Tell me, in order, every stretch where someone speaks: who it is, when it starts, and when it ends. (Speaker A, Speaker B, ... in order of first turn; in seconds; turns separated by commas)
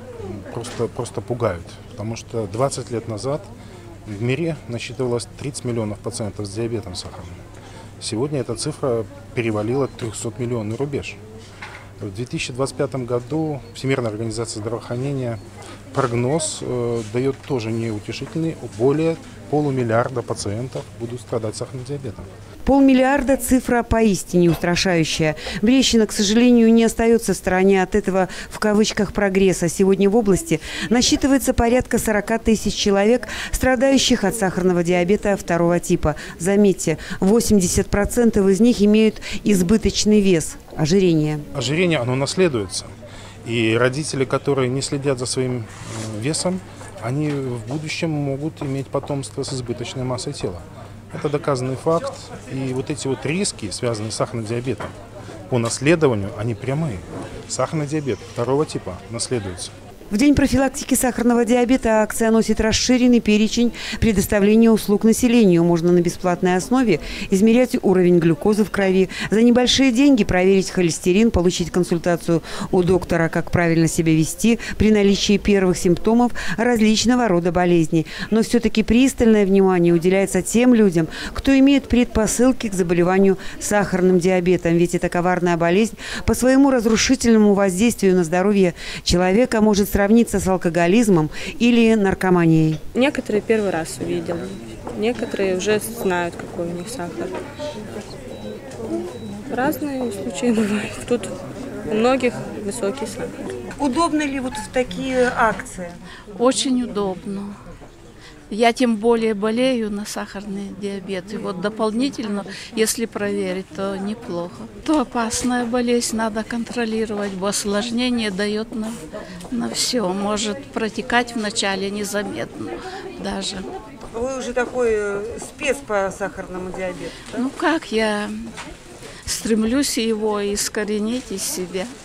Speaker A: 0.2-3.5, Speaker A: 4.0-7.4, Speaker A: 8.0-11.2, Speaker A: 12.0-15.4, Speaker A: 15.9-22.3, Speaker B: 22.6-41.4, Speaker A: 41.5-42.9, Speaker A: 43.4-54.9, Speaker A: 55.5-59.7, Speaker B: 60.1-92.8, Speaker C: 92.9-97.3, Speaker C: 99.5-101.3, Speaker C: 101.9-103.5, Speaker B: 103.8-106.0, Speaker D: 106.4-107.5, Speaker D: 108.5-123.7, Speaker B: 124.1-127.5, Speaker D: 127.3-128.5, Speaker D: 129.2-131.9